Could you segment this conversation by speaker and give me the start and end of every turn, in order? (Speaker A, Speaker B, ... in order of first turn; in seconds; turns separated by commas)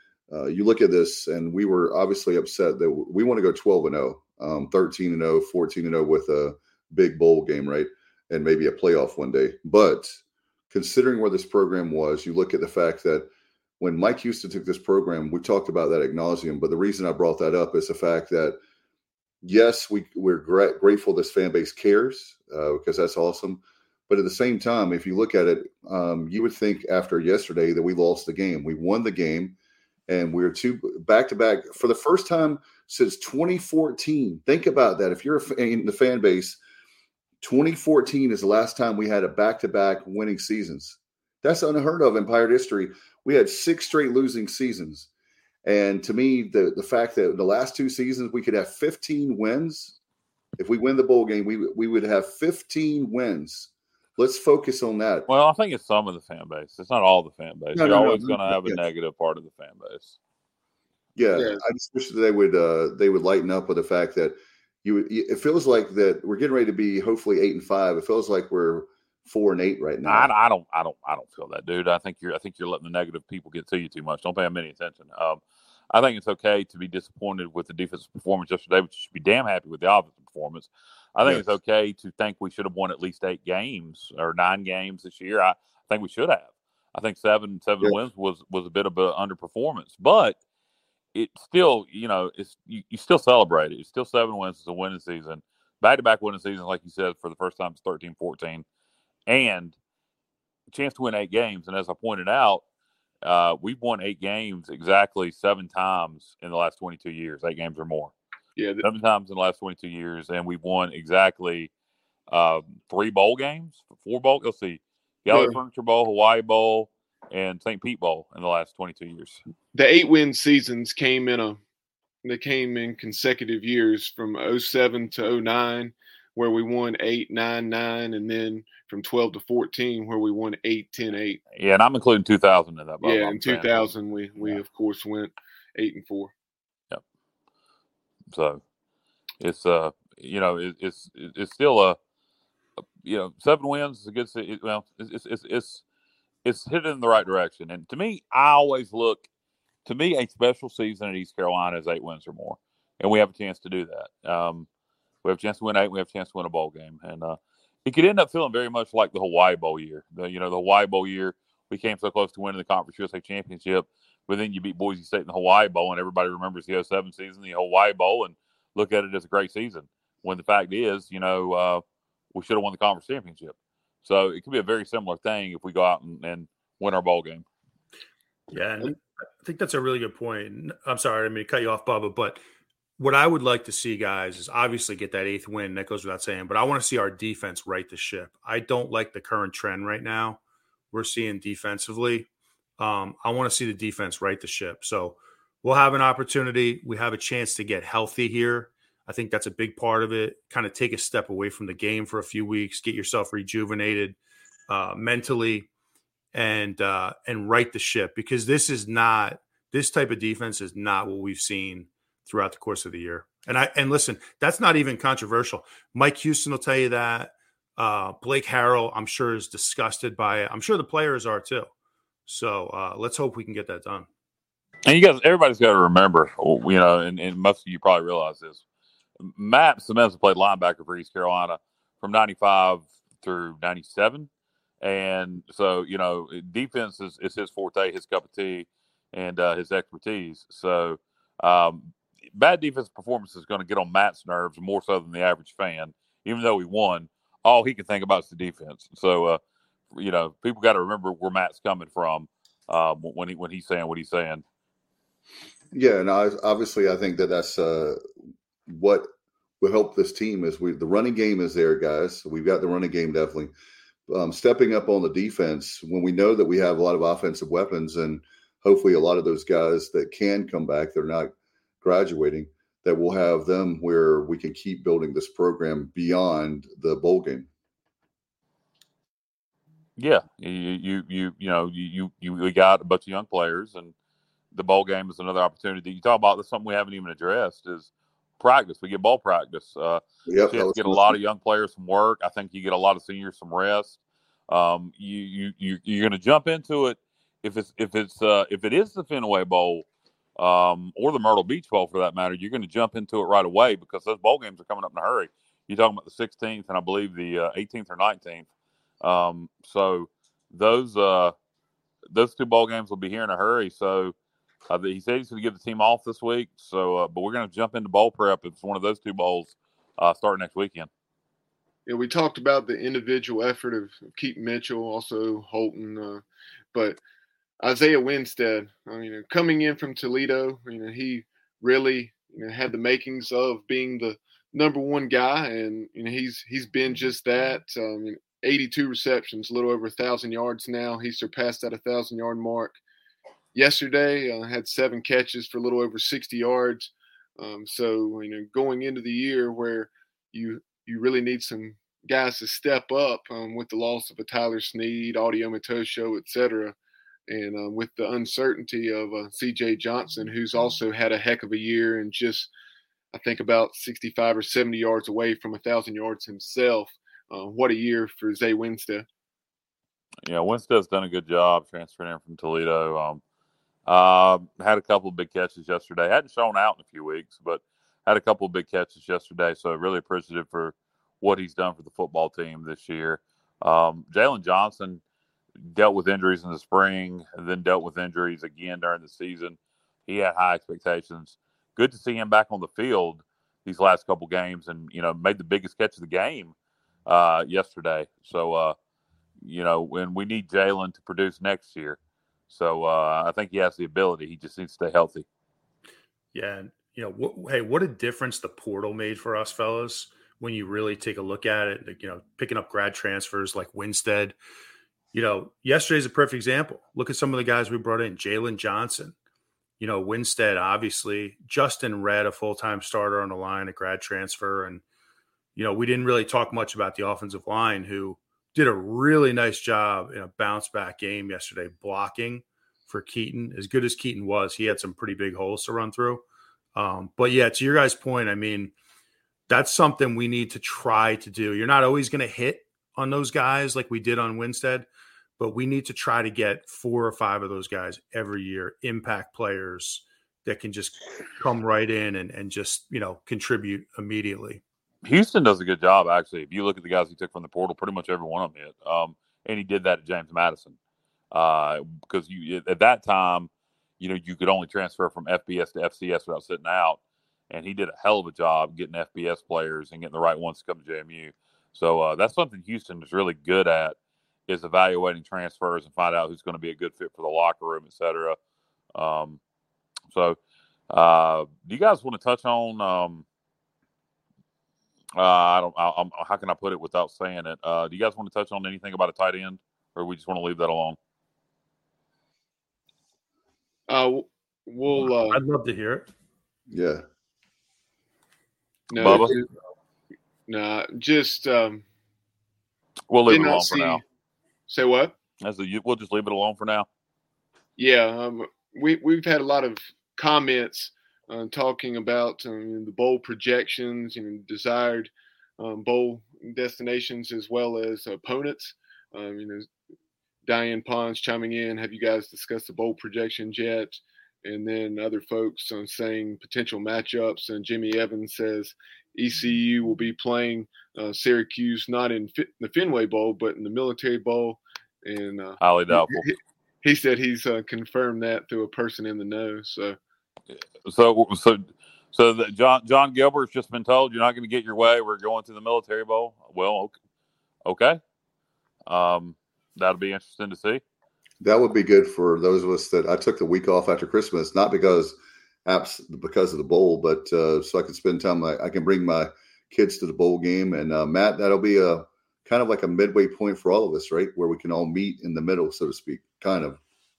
Speaker A: 0.3-10.2, Speaker A: 10.7-13.3, Speaker A: 13.8-18.6, Speaker A: 19.4-29.6, Speaker A: 30.1-36.6, Speaker A: 37.4-45.1, Speaker A: 45.6-50.0, Speaker A: 50.6-55.3, Speaker B: 55.3-60.2, Speaker A: 57.8-58.8, Speaker A: 61.1-70.3, Speaker C: 61.4-61.6, Speaker B: 70.1-75.4, Speaker B: 75.9-90.4, Speaker B: 91.1-98.7, Speaker B: 99.3-99.8, Speaker B: 100.7-102.6, Speaker B: 103.2-108.1, Speaker C: 108.6-108.8, Speaker B: 108.8-111.7, Speaker B: 112.3-119.4, Speaker C: 115.3-115.6, Speaker C: 119.7-121.6, Speaker C: 122.2-131.4, Speaker B: 131.6-134.6, Speaker C: 133.0-136.3, Speaker B: 138.3-138.6, Speaker B: 139.4-142.0, Speaker B: 143.0-145.8, Speaker B: 146.4-149.3, Speaker B: 149.8-154.7, Speaker B: 155.2-177.4, Speaker D: 178.5-182.4, Speaker D: 183.0-190.4, Speaker D: 190.9-192.3, Speaker D: 192.8-204.2, Speaker D: 204.7-205.7, Speaker D: 206.3-221.7, Speaker D: 222.3-224.1, Speaker B: 224.9-228.6, Speaker B: 229.2-234.3, Speaker B: 234.8-249.4, Speaker B: 249.9-254.4, Speaker A: 255.7-258.0, Speaker A: 258.7-259.1, Speaker A: 259.6-263.5, Speaker A: 264.1-277.5, Speaker B: 280.0-283.9, Speaker B: 284.5-299.9, Speaker A: 290.3-291.2, Speaker B: 300.4-308.5, Speaker B: 309.0-311.4, Speaker B: 312.1-314.1, Speaker B: 314.7-320.9, Speaker C: 321.9-326.2, Speaker C: 326.7-327.0, Speaker C: 327.6-342.8, Speaker C: 343.5-356.8, Speaker C: 357.3-362.5, Speaker C: 363.1-369.1, Speaker B: 370.3-373.2, Speaker B: 373.9-385.0, Speaker B: 385.7-396.5, Speaker B: 397.1-398.8, Speaker B: 399.4-402.0, Speaker B: 402.5-405.3, Speaker D: 406.3-414.4, Speaker D: 415.1-419.1, Speaker D: 419.8-424.8, Speaker D: 425.6-436.2, Speaker D: 436.8-438.7, Speaker D: 439.5-444.9, Speaker D: 445.4-454.6, Speaker B: 455.0-460.8, Speaker B: 461.3-467.0, Speaker B: 467.5-474.0, Speaker B: 474.5-478.4, Speaker B: 478.9-479.4, Speaker B: 480.1-480.4, Speaker B: 480.9-483.2, Speaker B: 485.2-491.0, Speaker C: 493.9-495.4, Speaker D: 494.9-496.1, Speaker A: 496.7-497.0, Speaker C: 498.9-499.5, Speaker B: 499.0-499.3, Speaker A: 499.0-499.4, Speaker C: 500.5-501.8, Speaker B: 503.1-504.0, Speaker C: 503.3-504.0, Speaker C: 504.7-505.1, Speaker B: 505.4-506.9, Speaker C: 507.8-519.7, Speaker C: 520.5-540.0, Speaker B: 535.6-536.3, Speaker B: 540.8-547.0, Speaker B: 547.6-548.0, Speaker B: 548.9-550.8, Speaker A: 551.4-566.8